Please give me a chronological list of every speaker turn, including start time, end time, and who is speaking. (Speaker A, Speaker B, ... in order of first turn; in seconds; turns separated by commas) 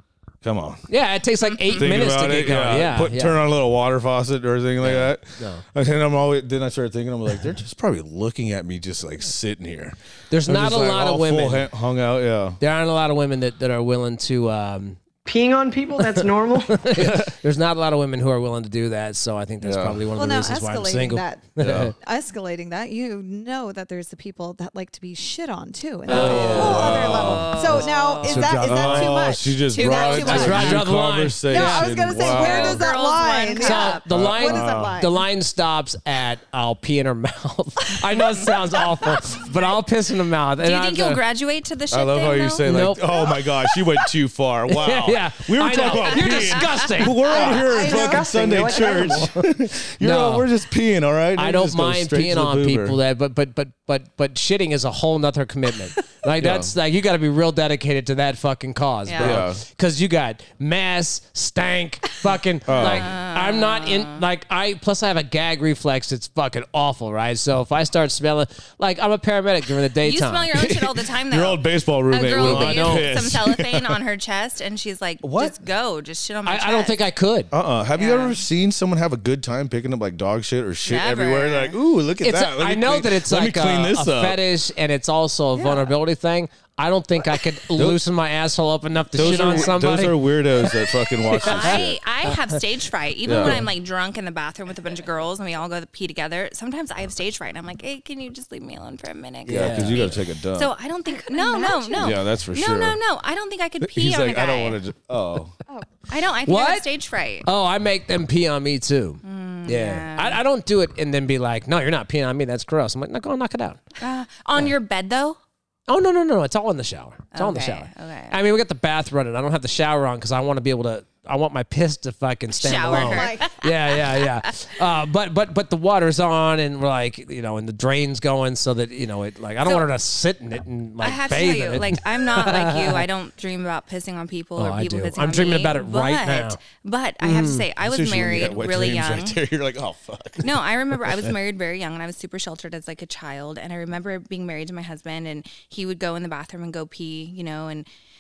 Speaker A: 0.4-0.9, Speaker B: 0.9-3.4, Speaker C: 1.5-1.8, Speaker A: 1.7-12.6, Speaker B: 4.8-5.6, Speaker B: 10.3-11.7, Speaker B: 12.6-15.0, Speaker D: 15.2-16.9, Speaker B: 16.0-21.9, Speaker A: 17.0-17.3, Speaker A: 19.6-20.0, Speaker E: 20.1-30.9, Speaker A: 21.6-21.9, Speaker B: 26.1-27.0, Speaker A: 26.1-27.8, Speaker C: 26.2-28.6, Speaker B: 27.8-29.2, Speaker A: 28.5-32.8, Speaker C: 29.8-30.8, Speaker B: 30.2-32.0, Speaker E: 31.5-35.2, Speaker C: 32.2-34.0, Speaker B: 33.6-41.2, Speaker A: 34.1-35.0, Speaker C: 40.6-42.7, Speaker A: 41.9-53.0, Speaker B: 42.6-43.3, Speaker B: 44.7-47.5, Speaker C: 46.2-46.6, Speaker E: 47.3-49.0, Speaker D: 47.5-49.3, Speaker B: 49.2-49.5, Speaker B: 50.0-50.5, Speaker B: 51.4-70.5, Speaker A: 56.4-56.7, Speaker C: 59.1-59.4, Speaker A: 59.2-59.6, Speaker A: 62.7-63.1, Speaker C: 62.7-64.2, Speaker C: 70.0-77.0, Speaker A: 70.5-74.0, Speaker B: 72.4-73.1, Speaker A: 75.2-75.6, Speaker B: 76.5-77.5, Speaker A: 77.5-84.4, Speaker C: 78.0-78.4, Speaker C: 80.9-81.8, Speaker B: 82.2-91.8, Speaker E: 85.5-85.9, Speaker A: 87.8-88.0, Speaker A: 89.1-92.0, Speaker C: 91.4-104.8, Speaker A: 93.2-93.7, Speaker B: 93.4-93.6, Speaker B: 99.5-100.1, Speaker A: 99.5-100.7, Speaker E: 101.1-102.2, Speaker A: 102.0-103.0, Speaker A: 103.8-105.5, Speaker C: 106.1-107.5, Speaker B: 106.5-106.9, Speaker B: 107.4-113.8, Speaker C: 109.2-110.4, Speaker C: 114.0-115.4, Speaker B: 115.9-133.1, Speaker C: 117.3-118.4, Speaker C: 122.6-124.5, Speaker E: 122.8-123.5, Speaker C: 131.0-139.4, Speaker B: 134.6-136.6, Speaker B: 137.2-137.7, Speaker A: 137.8-140.5, Speaker C: 140.4-147.9